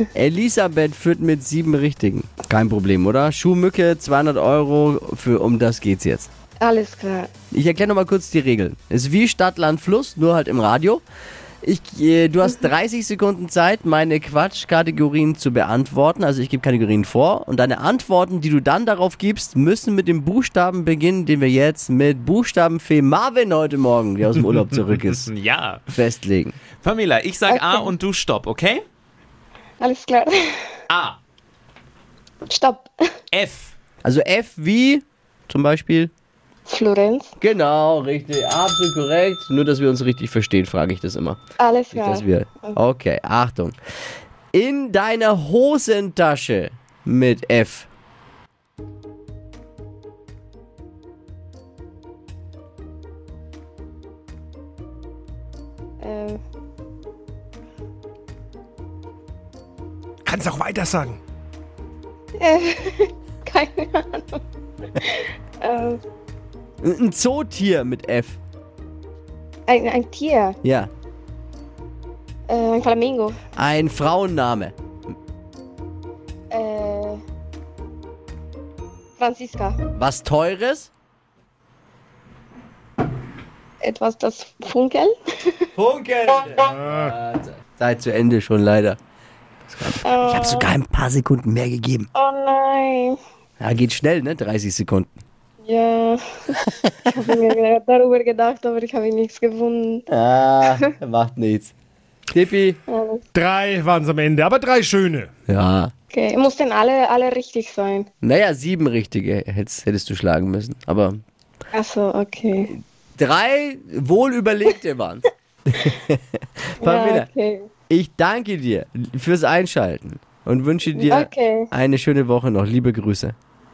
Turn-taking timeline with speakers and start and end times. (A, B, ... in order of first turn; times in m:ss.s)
0:00.2-0:06.3 A
0:06.6-0:07.3 B
0:07.5-0:11.0 A
0:11.6-0:25.3 A
0:25.2-0:25.8 C
0:25.9-0:26.6 A
0:26.8-0:28.8 C
0:27.5-0:27.9 B
0:29.8-0:30.4 B
0:32.5-0:32.9 B
0:33.3-0:33.7 C
0:34.0-0:36.1 A
0:36.7-0:37.3 B
0:37.4-0:41.4 A
0:41.6-0:42.7 B
0:41.9-0:43.8 A
0:44.5-0:47.9 A
0:56.0-0:56.4 B
1:00.2-1:01.2 D
1:02.4-1:04.4 B
1:05.0-1:06.0 B
1:06.8-1:08.4 A
1:09.7-1:10.6 B
1:10.6-1:10.9 A
1:12.5-1:13.4 B
1:13.6-1:14.7 A
1:16.5-1:17.2 B
1:19.2-1:19.8 B
1:20.0-1:20.9 A
1:23.8-1:25.6 B
1:25.8-1:29.0 A
1:26.8-1:27.1 D
1:29.7-1:32.1 A
1:30.0-1:30.7 B
1:32.1-1:33.2 B
1:33.6-1:35.1 A
1:35.6-1:40.0 B
1:40.1-1:41.7 A
1:42.3-1:42.8 A
1:42.9-1:43.2 B
1:43.3-1:45.3 D
1:45.5-1:45.9 A
1:46.1-1:48.1 B
1:48.2-1:51.2 A
1:51.7-1:52.7 B
1:53.2-1:57.3 A
1:56.8-1:57.7 B
1:57.9-2:03.3 A
2:01.0-2:01.7 B